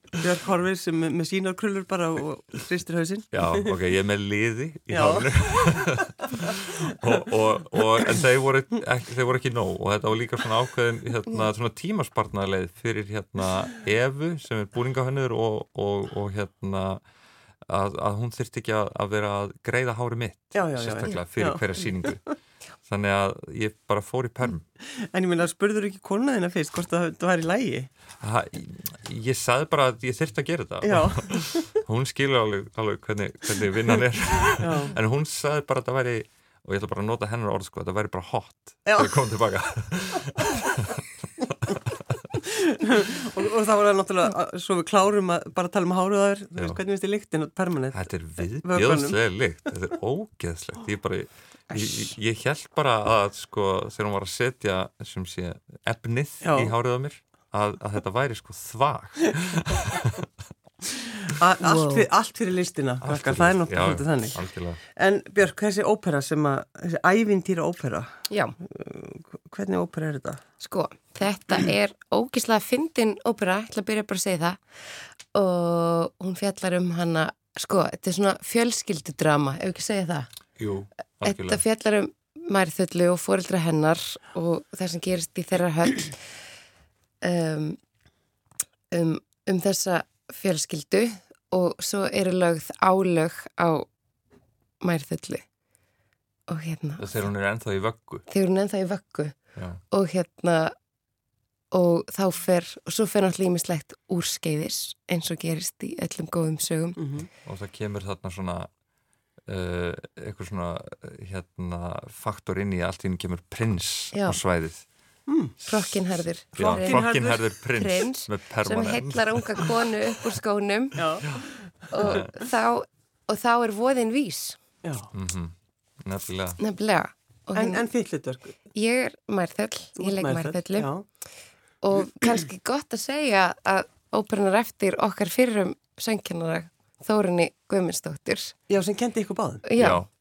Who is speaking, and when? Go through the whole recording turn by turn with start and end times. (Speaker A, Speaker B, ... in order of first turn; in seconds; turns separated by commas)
Speaker A: 0.2-3.7, Speaker B: 3.3-17.0, Speaker A: 4.9-6.0, Speaker B: 17.6-22.2, Speaker A: 20.5-22.3, Speaker B: 22.8-24.6, Speaker A: 24.8-27.9, Speaker B: 28.2-42.3, Speaker A: 30.8-31.8, Speaker A: 34.6-35.0, Speaker A: 38.9-39.2, Speaker A: 42.4-49.2, Speaker B: 47.9-60.2, Speaker A: 56.4-56.7, Speaker A: 61.2-64.4, Speaker C: 61.6-62.1, Speaker B: 63.0-64.8, Speaker A: 64.9-70.4, Speaker C: 68.3-68.5, Speaker C: 70.6-74.6, Speaker C: 75.3-80.3, Speaker B: 80.6-81.6, Speaker C: 81.2-86.2, Speaker C: 87.2-87.8, Speaker C: 88.9-93.9, Speaker C: 94.8-95.4, Speaker C: 96.5-97.1, Speaker B: 97.0-98.2, Speaker C: 98.3-99.3, Speaker B: 99.5-99.8, Speaker C: 99.9-100.7, Speaker C: 101.7-107.0, Speaker A: 107.0-107.3, Speaker B: 107.4-108.7, Speaker B: 109.5-114.8, Speaker C: 114.1-114.4, Speaker A: 115.3-115.6, Speaker C: 115.7-117.1, Speaker B: 116.5-119.7, Speaker A: 116.5-117.5, Speaker C: 117.7-121.0, Speaker A: 121.0-121.4, Speaker C: 121.9-124.6, Speaker B: 122.0-122.3, Speaker A: 124.8-125.1, Speaker B: 125.1-126.6, Speaker C: 126.6-127.8, Speaker A: 127.5-128.6, Speaker C: 128.7-130.9, Speaker A: 130.0-131.1, Speaker C: 131.8-138.5, Speaker A: 138.7-139.7, Speaker C: 139.7-140.0, Speaker B: 139.8-140.1